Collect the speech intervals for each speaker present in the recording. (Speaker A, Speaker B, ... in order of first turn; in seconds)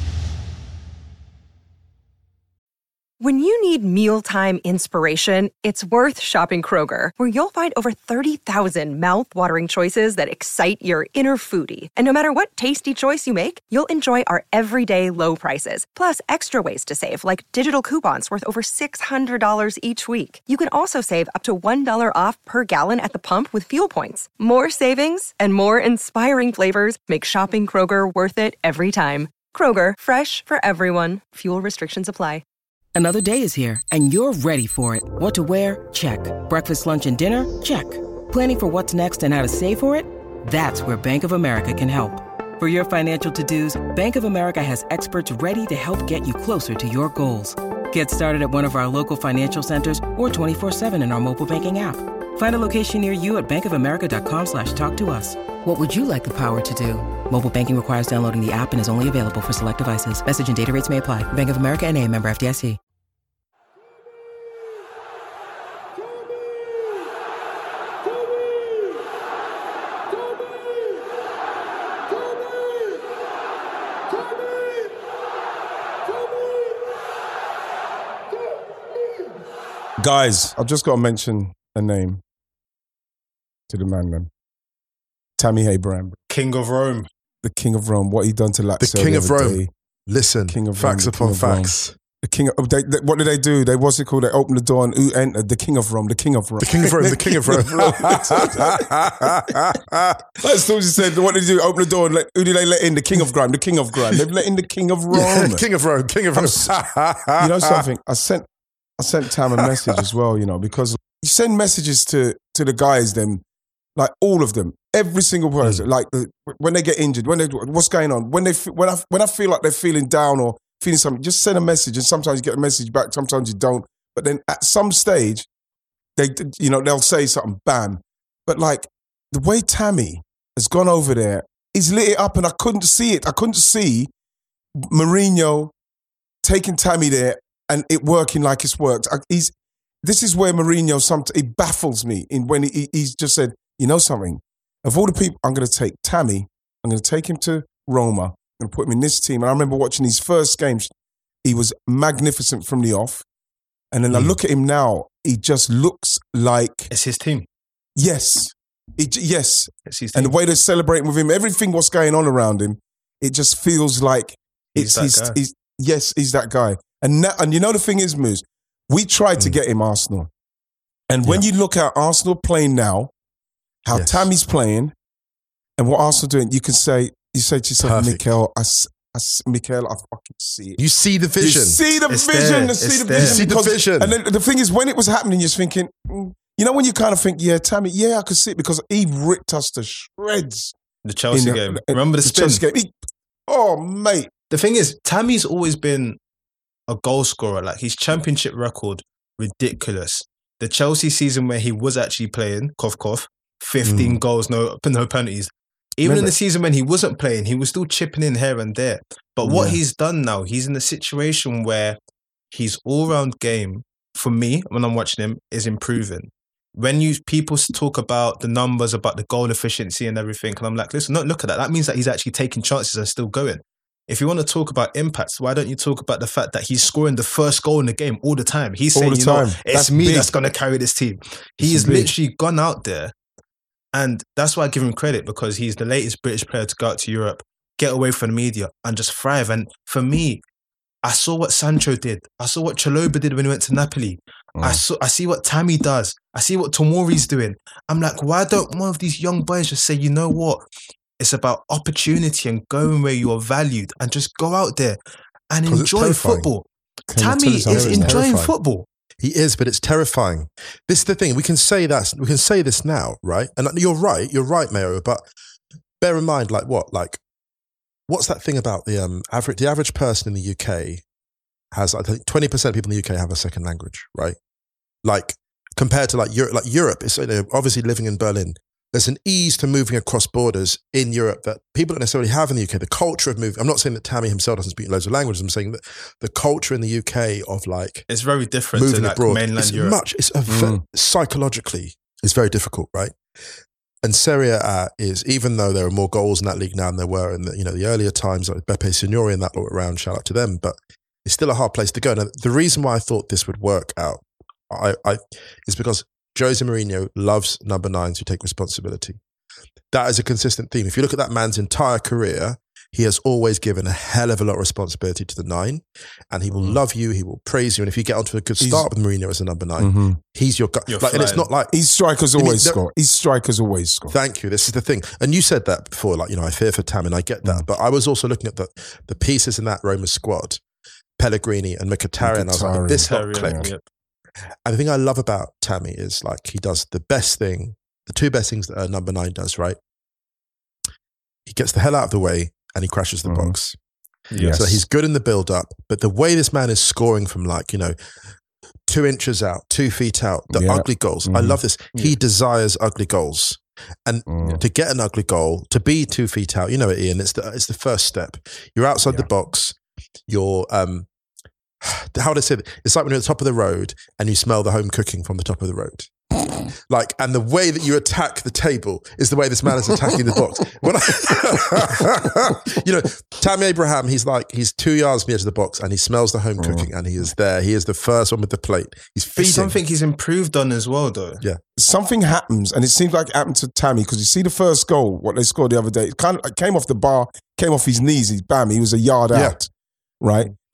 Speaker A: 3.2-32.4
Speaker B: 33.0-62.8
Speaker C: 80.0-82.2, 83.7-84.3, 85.4-86.2, 87.4-89.7, 90.5-99.6, 100.4-105.6, 106.4-106.7, 107.4-108.5, 109.0-113.4, 114.0-125.5, 126.2-134.1, 134.8-135.7, 136.4-139.5, 140.0-150.9, 151.4-153.2, 153.9-156.9, 158.0-170.3, 171.1-173.1, 173.8-174.9, 175.8-180.8, 181.4-190.7, 191.3-192.9, 193.5-194.3, 206.0-206.3, 209.4-209.8, 228.9-230.3, 231.6-232.1, 244.6-244.8, 257.1-258.5, 290.5-290.8, 318.6-318.9, 319.8-320.2, 321.7-324.1, 332.2-333.7, 343.3-343.6, 344.4-344.8, 350.5-351.6, 354.3-354.6, 376.6-376.9, 381.8-389.7, 390.2-390.5
Speaker D: 86.3-87.1, 156.9-157.4, 159.9-160.3, 164.7-165.3, 182.1-183.4, 191.0-192.6, 194.5-196.2, 196.9-212.0, 212.5-233.1, 233.9-240.4, 241.0-250.6, 251.2-255.0, 255.5-258.9, 288.1-290.0, 320.9-321.5, 333.0-333.8, 344.3-344.6, 379.4-381.4
Speaker E: 88.8-92.0, 96.6-100.2, 105.1-107.8, 109.6-110.0, 154.1-154.3, 173.9-174.3, 177.8-178.2, 180.8-181.8, 183.2-184.2, 203.8-204.2, 255.7-256.5, 257.7-258.3, 259.2-265.2, 266.0-267.2, 268.1-271.0, 271.7-274.4, 275.0-288.1, 288.7-293.1, 294.0-309.2, 309.9-321.7, 322.3-322.8, 324.1-330.6, 331.2-333.7, 334.6-339.8, 341.4-343.8, 344.4-347.9, 348.9-361.1, 361.8-366.1, 366.8-379.8, 389.3-389.6